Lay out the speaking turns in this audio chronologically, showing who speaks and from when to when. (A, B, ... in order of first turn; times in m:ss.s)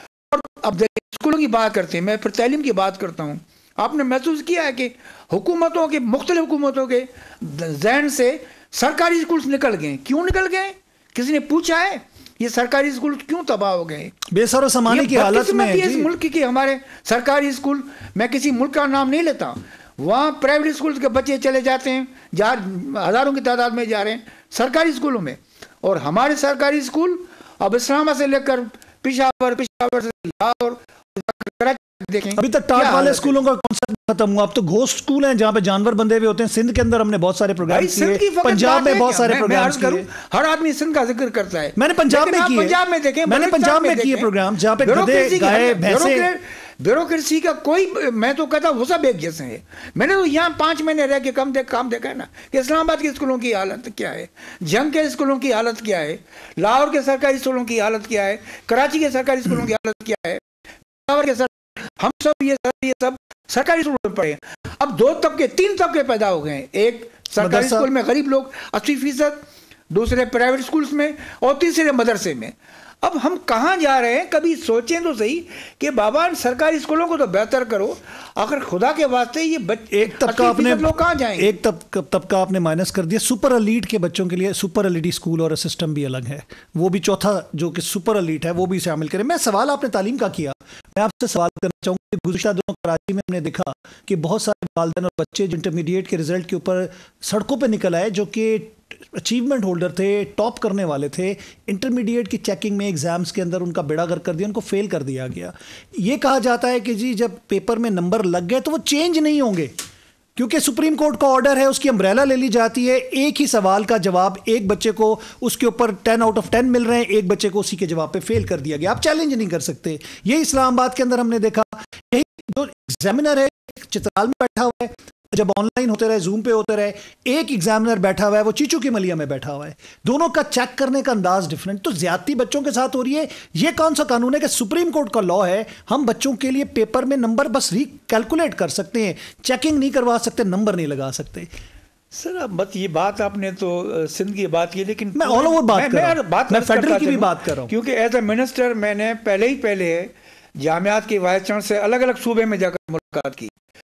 0:00.3-0:14.2 A
0:14.3-0:16.1 B
0:14.9-0:33.3 A
0:32.4-0:40.1 B
0:37.7-0:44.3 A
0:41.8-0:46.3 B
0:44.8-1:00.4 A
1:01.0-1:21.6 A
1:07.4-1:07.9 B
1:19.9-1:49.7 B
1:50.4-2:21.5 B
2:22.1-2:33.5 A
2:25.2-2:27.7 B